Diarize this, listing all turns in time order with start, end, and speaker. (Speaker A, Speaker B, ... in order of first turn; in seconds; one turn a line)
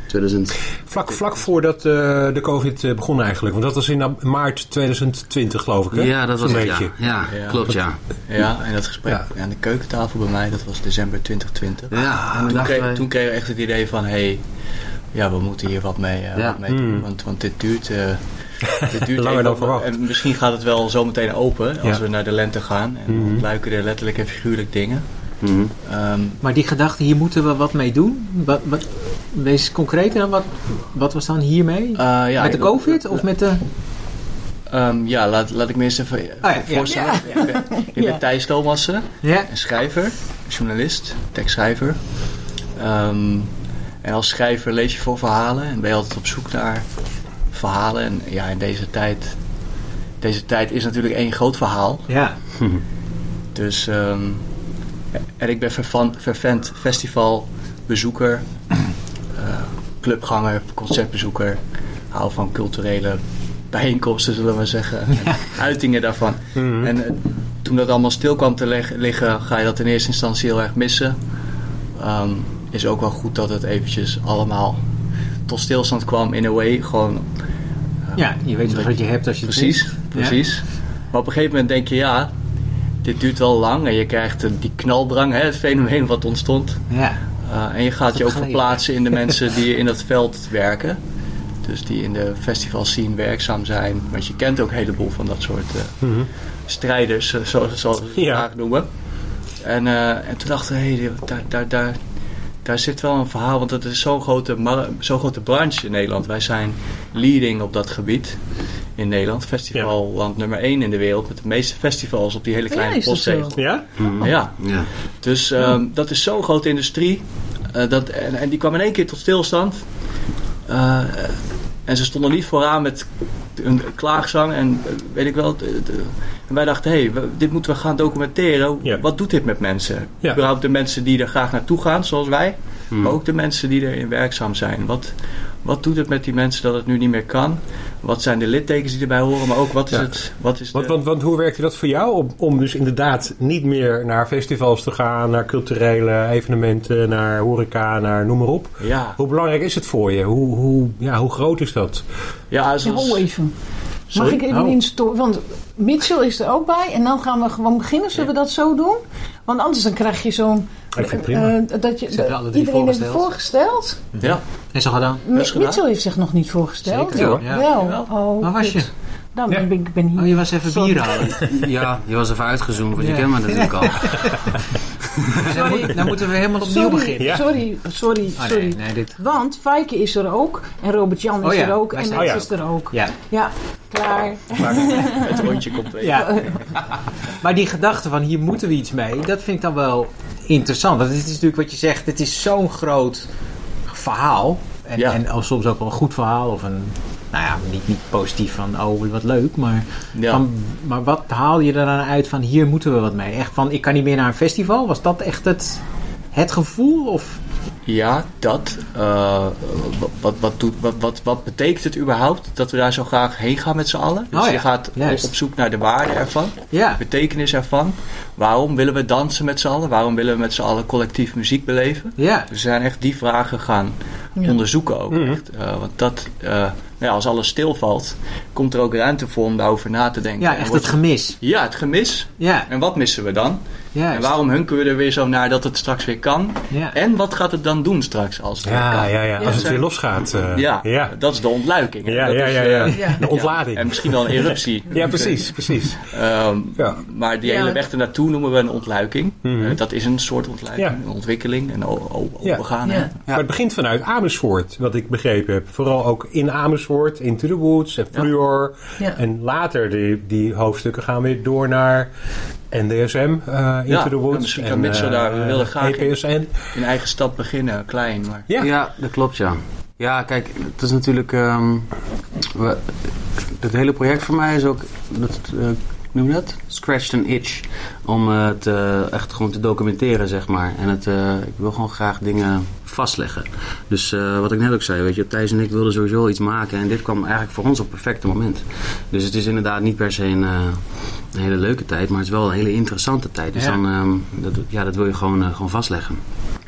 Speaker A: 0.1-0.8
Speaker B: 0.8-6.9
Speaker C: 1.1-1.5
Speaker A: 5.9-8.0
Speaker C: 7.3-14.5
Speaker A: 11.9-13.0
Speaker C: 15.1-26.4
Speaker B: 16.7-17.1
Speaker B: 19.1-20.1
Speaker B: 23.1-23.4
Speaker A: 25.4-25.7
Speaker D: 26.4-33.7
Speaker C: 32.0-33.2
Speaker C: 34.7-49.4
Speaker D: 36.4-37.5
Speaker E: 36.9-38.2
Speaker D: 39.2-39.5
Speaker C: 50.2-52.1
Speaker D: 52.1-52.4
Speaker C: 53.5-54.5
Speaker C: 55.4-63.2
Speaker C: 63.7-71.2
Speaker D: 65.2-65.4
Speaker B: 66.5-66.9
Speaker C: 72.0-74.8
Speaker C: 75.5-77.3
Speaker C: 78.0-82.3
Speaker D: 78.2-80.5
Speaker C: 83.0-86.9
Speaker D: 86.9-87.2
Speaker C: 87.4-91.0
Speaker D: 88.1-89.3
Speaker C: 91.6-140.9
Speaker B: 96.0-96.3
Speaker B: 98.2-98.5
Speaker E: 112.7-114.3
Speaker B: 113.5-113.8
Speaker A: 114.0-114.9
Speaker A: 132.9-133.2
Speaker B: 139.9-152.1
Speaker C: 148.8-149.2
Speaker C: 152.5-153.3
Speaker E: 152.8-164.1
Speaker D: 154.2-154.8
Speaker B: 160.9-161.5
Speaker D: 162.1-163.3
Speaker D: 164.1-165.2
Speaker C: 164.2-164.5
Speaker E: 165.2-171.3
Speaker C: 165.3-165.8
Speaker D: 166.8-168.9
Speaker B: 167.1-167.4
Speaker C: 167.7-168.3
Speaker D: 170.2-171.4
Speaker A: 171.4-174.8
Speaker D: 173.0-174.4
Speaker D: 175.4-177.6
Speaker E: 175.5-185.5
Speaker B: 177.2-177.5
Speaker D: 178.4-179.2
Speaker D: 181.4-183.2
Speaker B: 182.2-182.4
Speaker C: 184.6-186.8
Speaker D: 186.0-186.4
Speaker E: 186.0-186.8
Speaker D: 187.4-193.3
Speaker D: 193.9-207.4
Speaker C: 200.1-200.4
Speaker C: 207.9-253.1
Speaker D: 214.3-215.3
Speaker D: 216.7-217.0
Speaker D: 222.2-222.5
Speaker B: 225.1-225.4
Speaker D: 230.4-231.4
Speaker D: 232.4-232.7
Speaker D: 233.9-234.4
Speaker D: 236.7-237.0
Speaker B: 238.7-241.3
Speaker D: 238.8-239.3
Speaker E: 239.4-239.8
Speaker B: 242.0-246.1
Speaker E: 242.9-243.2
Speaker B: 246.8-247.0
Speaker E: 247.4-247.8
Speaker B: 249.4-249.8
Speaker E: 252.8-253.1
Speaker B: 253.2-262.1
Speaker B: 262.7-266.8
Speaker C: 263.9-268.5
Speaker A: 268.6-296.2